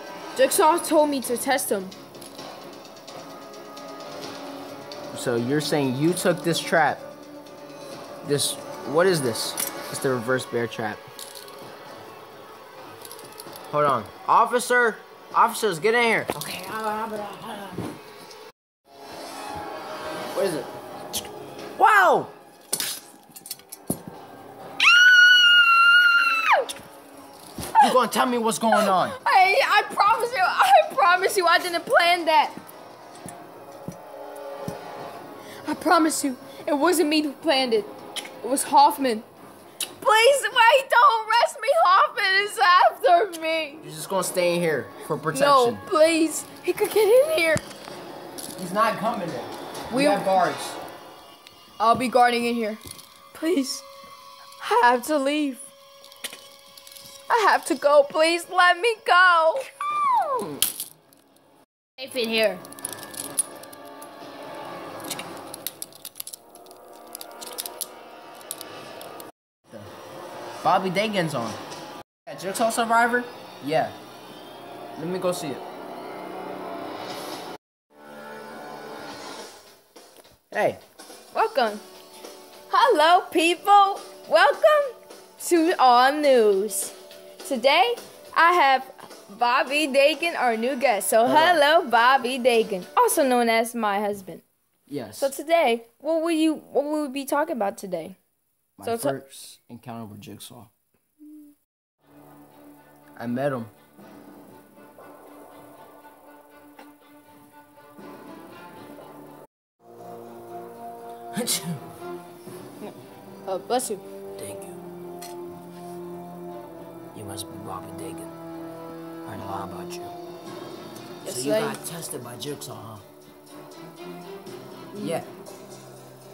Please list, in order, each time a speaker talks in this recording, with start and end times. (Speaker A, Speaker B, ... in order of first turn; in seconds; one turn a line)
Speaker A: 0.3-1.9
Speaker B: 5.1-7.1
Speaker B: 8.2-11.0
Speaker B: 13.7-17.8
Speaker B: 20.3-20.7
Speaker B: 21.8-22.3
Speaker B: 27.8-29.2
Speaker A: 28.8-32.6
Speaker A: 35.6-39.3
Speaker A: 40.0-43.8
Speaker B: 43.8-45.8
Speaker A: 45.3-47.6
Speaker B: 48.6-50.8
Speaker A: 49.9-50.4
Speaker A: 51.8-52.8
Speaker A: 53.3-53.9
Speaker A: 54.6-55.7
Speaker A: 57.3-59.7
Speaker A: 62.0-62.6
Speaker B: 70.6-71.6
Speaker B: 72.2-74.0
Speaker B: 75.0-75.6
Speaker B: 80.5-80.8
Speaker A: 81.3-81.8
Speaker A: 82.7-94.4
Speaker B: 91.2-91.6
Speaker B: 94.9-95.3
Speaker A: 95.2-98.2
Speaker B: 98.8-100.7
Speaker A: 98.8-99.2
Speaker B: 103.2-103.7
Speaker B: 111.3-111.8
Speaker A: 113.5-114.0
Speaker B: 114.4-114.8
Speaker B: 117.1-118.3
Speaker B: 119.2-120.2
Speaker A: 121.2-121.8
Speaker B: 121.2-123.1
Speaker A: 124.9-125.2
Speaker B: 125.0-125.3